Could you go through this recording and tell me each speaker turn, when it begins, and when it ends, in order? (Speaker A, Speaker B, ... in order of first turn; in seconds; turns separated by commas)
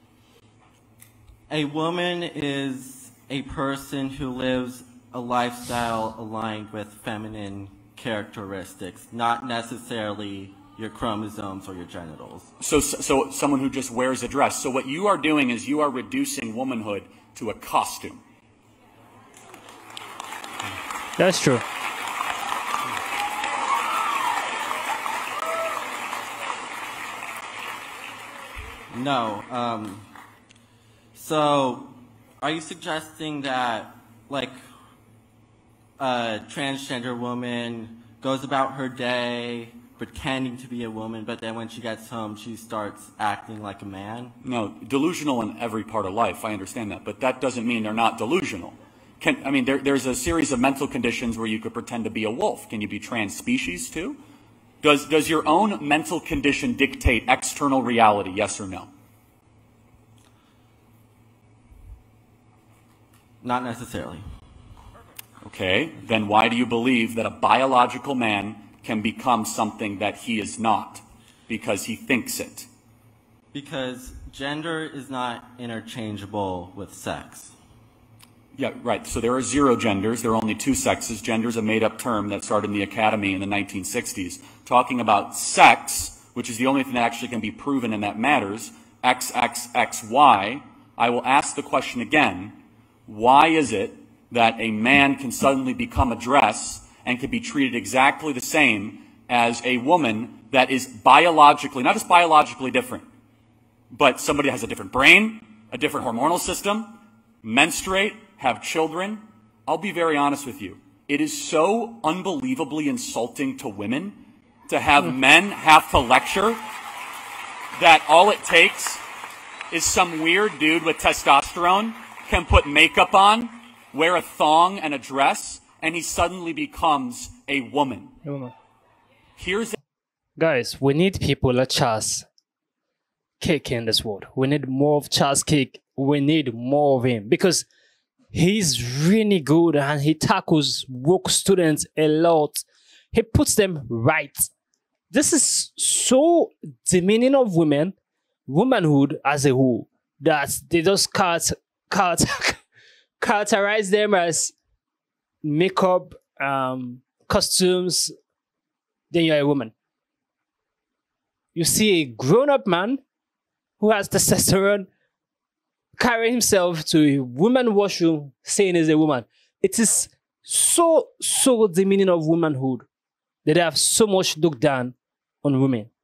Speaker A: 1.5-12.5, Speaker B: 12.6-18.2, Speaker C: 21.2-21.6, Speaker A: 28.9-30.1, Speaker A: 31.1-34.5, Speaker A: 36.0-44.4, Speaker B: 44.4-54.2, Speaker B: 54.8-58.9, Speaker A: 63.4-64.2, Speaker B: 65.4-72.7, Speaker A: 73.5-77.5, Speaker B: 78.5-92.5, Speaker B: 93.1-103.0, Speaker B: 103.9-116.6, Speaker B: 117.8-119.0, Speaker B: 119.7-128.1, Speaker C: 128.2-128.5, Speaker B: 129.4-129.8, Speaker C: 130.4-132.2, Speaker C: 133.4-137.7, Speaker C: 138.3-144.5, Speaker C: 145.1-147.9, Speaker C: 148.5-152.6, Speaker C: 153.2-154.5, Speaker C: 155.4-158.1, Speaker C: 159.1-159.7, Speaker C: 161.5-163.0, Speaker C: 163.8-164.9, Speaker C: 165.9-172.8, Speaker C: 173.4-175.9